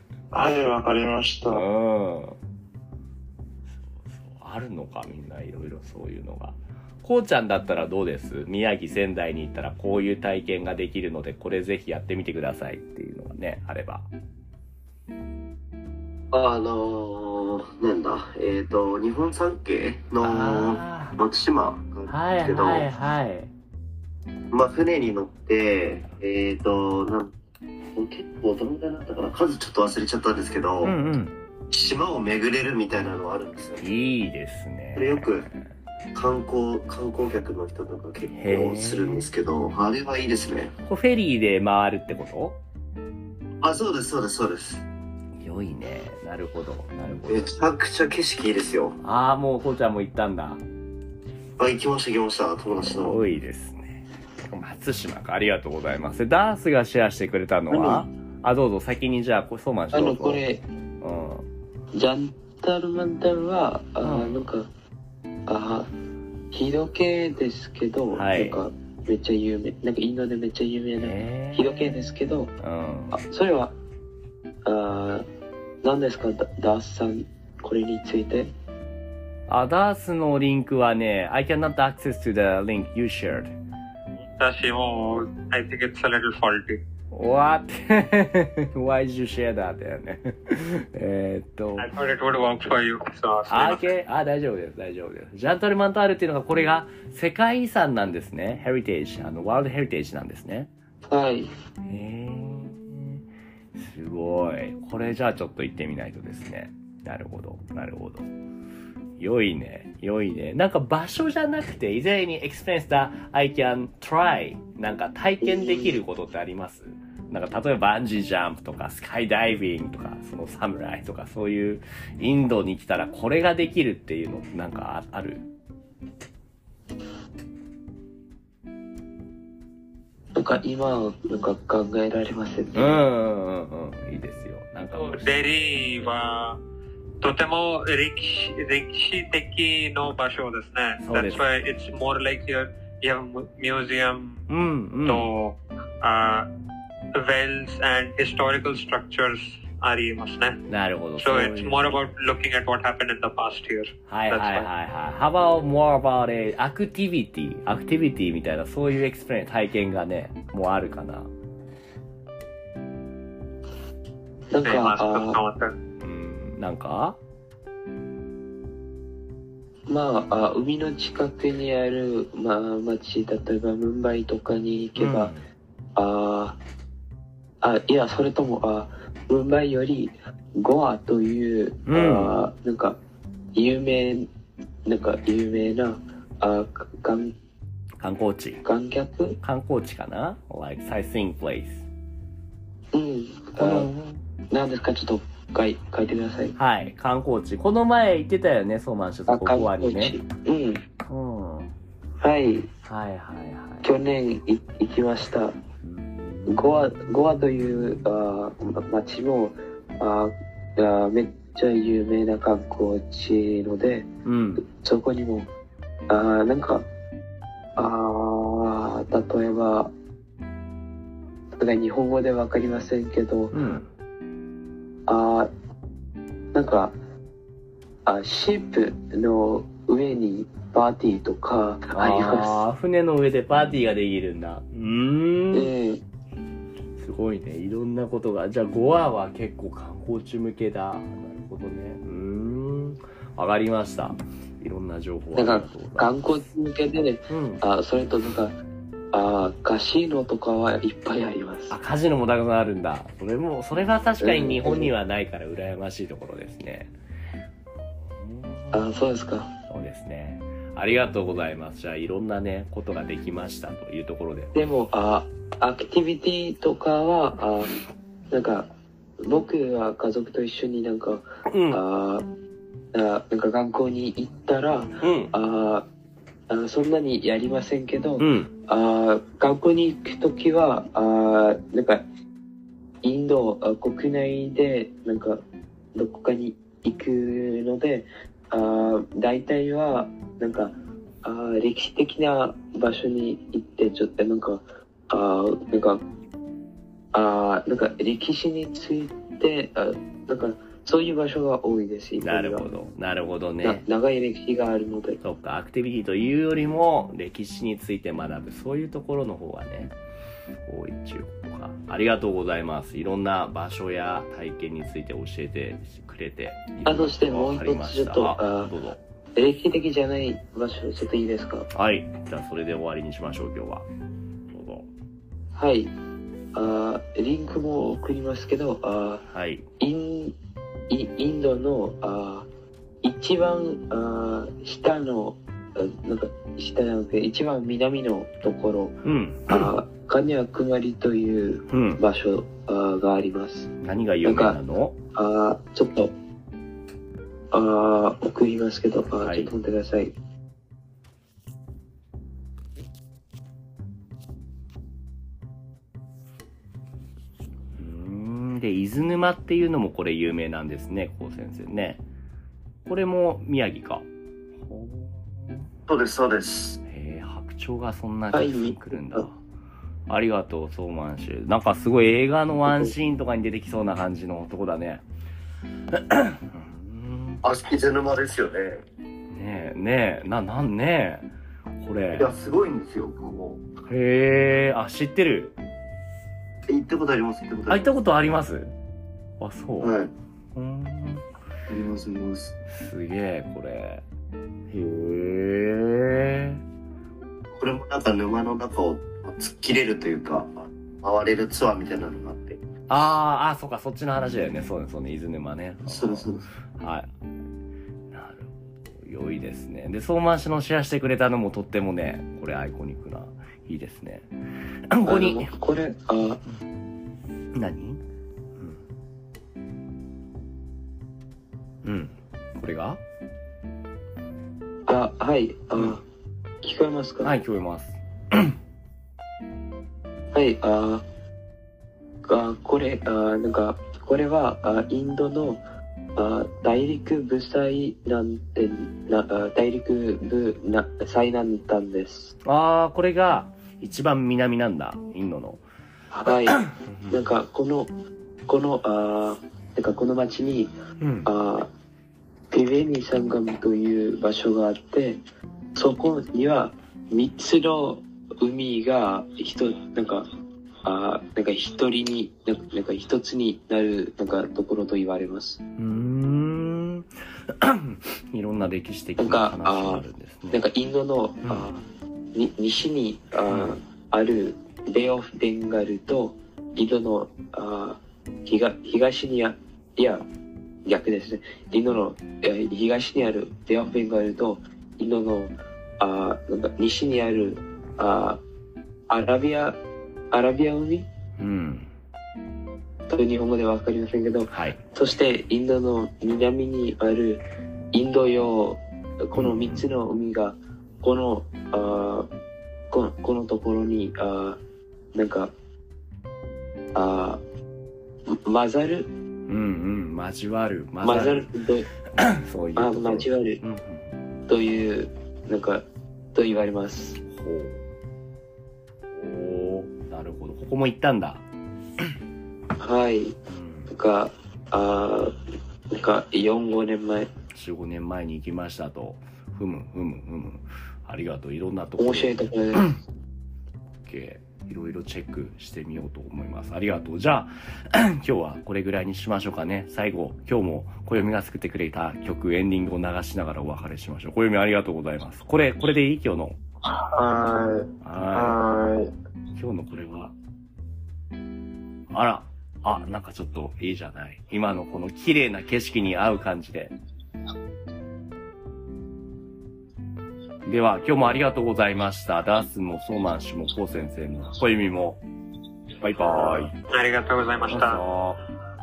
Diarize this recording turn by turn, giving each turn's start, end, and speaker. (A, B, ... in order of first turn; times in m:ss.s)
0:00.3-0:01.6 A
0:01.5-0:02.4 B
0:03.8-0:14.1 B
0:16.3-0:22.8 C
0:20.2-0:21.2 B
0:22.1-0:23.5 B
0:24.5-0:27.3 C
0:27.9-0:31.0 C
0:30.8-0:31.3 B
0:31.7-0:33.8 C
0:33.8-0:35.5 B
0:35.0-0:35.5 C
0:36.1-0:40.7 C
0:38.3-0:39.3 B
0:40.9-0:42.6 B
0:43.6-0:44.8 C
0:45.4-0:47.5 B
0:47.3-0:49.0 C
0:49.0-0:50.6 B
0:51.6-0:53.2 C
0:52.8-1:00.4 B
0:57.7-0:58.0 D
0:59.9-1:00.6 D
1:01.0-1:01.4 B
1:01.9-1:04.7 D
1:04.0-1:04.5 B
1:05.5-1:05.9 D
1:06.5-1:12.5 D
1:08.1-1:08.6 B
1:11.0-1:13.2 B
1:13.1-1:13.7 D
1:14.6-1:15.2 D
1:15.8-1:18.5 D
1:19.5-1:23.5 B
1:24.4-1:26.8 E
1:27.1-1:31.9 B
1:31.8-1:33.8 E
1:33.5-1:40.7 B
1:41.1-1:41.5 D
1:41.8-1:43.2 B
1:43.7-1:48.3 B
1:49.2-2:05.5 B
1:55.4-1:56.0 D
2:10.3-2:13.0 D
2:12.7-2:15.3 B
2:14.9-2:16.6 E
2:17.2-2:24.4 E
2:21.0-2:21.4 B
2:24.5-2:25.3 B
2:25.0-2:26.5 E
2:27.1-2:30.6 E
2:30.7-2:32.1 B
2:31.2-2:34.7 E
2:34.1-2:41.3 B
2:44.5-2:45.4 D
2:44.6-2:45.7 E
2:46.0-2:47.2 B
2:49.9-2:55.3 D
2:55.0-2:55.4 B
2:56.0-2:56.6 D
2:57.6-3:03.0 D
3:01.9-3:02.3 B
3:03.5-3:04.3 D
3:04.8-3:07.3 D
3:08.0-3:08.6 B
3:08.6-3:09.4 D
3:09.4-3:11.8 B
3:12.9-3:13.9 D
3:13.6-3:14.2 B
3:14.5-3:16.6 D
3:16.6-3:20.2 B
3:19.3-3:20.8 D
3:21.0-3:21.7 B
3:22.2-3:22.7 D
3:22.8-3:23.9 B
3:23.8-3:25.6 D
3:25.8-3:26.9 B
3:26.5-3:34.1 D
3:34.2-3:34.6 B
3:34.6-3:35.5 D
3:36.1-3:36.8 D
3:37.8-3:39.9 D
3:41.5-3:43.6 D
3:43.5-3:43.9 B
3:45.1-3:45.5 D
3:46.5-3:46.9 D
3:48.0-3:52.6 D
3:51.9-3:55.7 B
3:55.5-3:56.0 D
3:57.0-4:06.1 B
4:05.4-4:08.6 D
4:07.3-4:07.6 B
4:09.1-4:11.8 D
4:11.7-4:16.9 B
4:14.2-4:14.9 D
4:18.0-4:18.9 B
4:18.7-4:19.5 D
4:19.7-4:24.6 B
4:24.5-4:27.8 D
4:28.3-4:28.7 D
4:29.2-4:32.2 D
4:31.5-4:31.8 B
4:32.9-4:35.9 D
4:35.0-4:35.3 B
4:36.5-4:42.0 D
4:38.2-4:38.5 B
4:43.0-4:45.4 D
4:45.9-4:56.0 D
4:57.1-5:02.7 D
5:02.2-5:03.8 B
5:03.6-5:05.2 D
5:05.2-5:10.0 B
5:10.6-5:19.0 B
5:16.8-5:18.7 D
5:19.4-5:21.7 D
5:21.7-5:23.9 B
5:24.5-5:24.9 B
5:25.5-5:25.9 D
5:26.5-5:29.2 D
5:29.3-5:29.6 B
5:29.8-5:30.3 D
5:30.9-5:32.5 D
5:33.0-5:39.0 D
5:39.0-5:39.7 B
5:39.5-5:43.7 D
5:41.7-5:42.0 B
5:43.8-5:45.0 B
5:44.2-5:44.6 D
5:45.1-5:46.1 D
5:47.5-5:50.1 D
5:49.2-5:49.5 B
5:57.8-6:02.0 B
6:02.8-6:04.0 B
6:04.6-6:05.7 B
6:05.9-6:06.8 C
6:06.8-6:09.4 B
6:08.3-6:09.3 D
6:10.1-6:15.0 B
6:12.7-6:12.9 D
6:15.9-6:17.4 B
6:17.4-6:18.8 C
6:19.3-6:22.3 B
6:22.2-6:23.6 C
6:23.9-6:25.5 B
6:26.7-6:27.9 C
6:27.7-6:28.7 B
6:29.4-6:29.9 B
6:29.8-6:30.1 C
6:30.5-6:31.2 B
6:31.7-6:32.5 C
6:32.7-6:34.0 B
6:34.7-6:36.6 B
6:37.6-6:42.6 C
6:42.9-6:47.1 B
6:45.8-6:46.5 C
6:48.1-6:54.3 B
6:54.9-6:55.5 B
6:55.0-6:56.4 D
6:57.5-6:58.0 B
7:01.8-7:03.0 B
7:04.9-7:06.0 D
7:06.6-7:07.3 D
7:07.2-7:08.6 B
7:10.3-7:11.0 D
7:12.2-7:15.6 D
7:16.2-7:22.3 D
7:22.4-7:25.6 B
7:26.1-7:27.9 D
7:26.6-7:27.2 B
7:28.5-7:30.7 D
7:31.0-7:31.3 B
7:31.2-7:31.7 D
7:32.5-7:35.2 D
7:35.7-7:40.3 D
7:40.8-7:45.6 D
7:45.8-7:50.6 B
7:49.2-8:00.2 D
7:53.5-7:53.8 B
8:00.8-8:08.4 D
8:09.1-8:09.8 D
8:10.3-8:11.0 D
8:11.4-8:11.9 B
8:13.1-8:22.3 D
8:14.5-8:14.8 B
8:19.3-8:19.9 B
8:22.9-8:24.6 D
8:25.1-8:25.5 D
8:26.9-8:27.4 D
8:28.3-8:29.1 D
8:29.5-8:31.5 B
8:31.0-8:31.9 D
8:32.2-8:34.1 B
8:32.8-8:33.6 D
8:34.5-8:37.2 D
8:37.3-8:37.8 B
8:39.1-8:41.4 B
8:42.8-8:43.4 D
8:43.5-8:43.9 B
8:43.9-8:45.3 D
8:45.9-8:47.3 D
8:47.5-8:52.8 B
8:52.0-8:52.9 D
8:54.0-9:06.6 B
9:06.8-9:09.1 A
9:08.0-9:08.6 B
9:09.5-9:10.3 B
9:12.1-9:16.9 B
9:20.6-9:25.2 B
9:26.0-9:26.7 B
9:26.4-9:26.7 A
9:26.9-9:28.0 E
9:27.6-9:28.4 B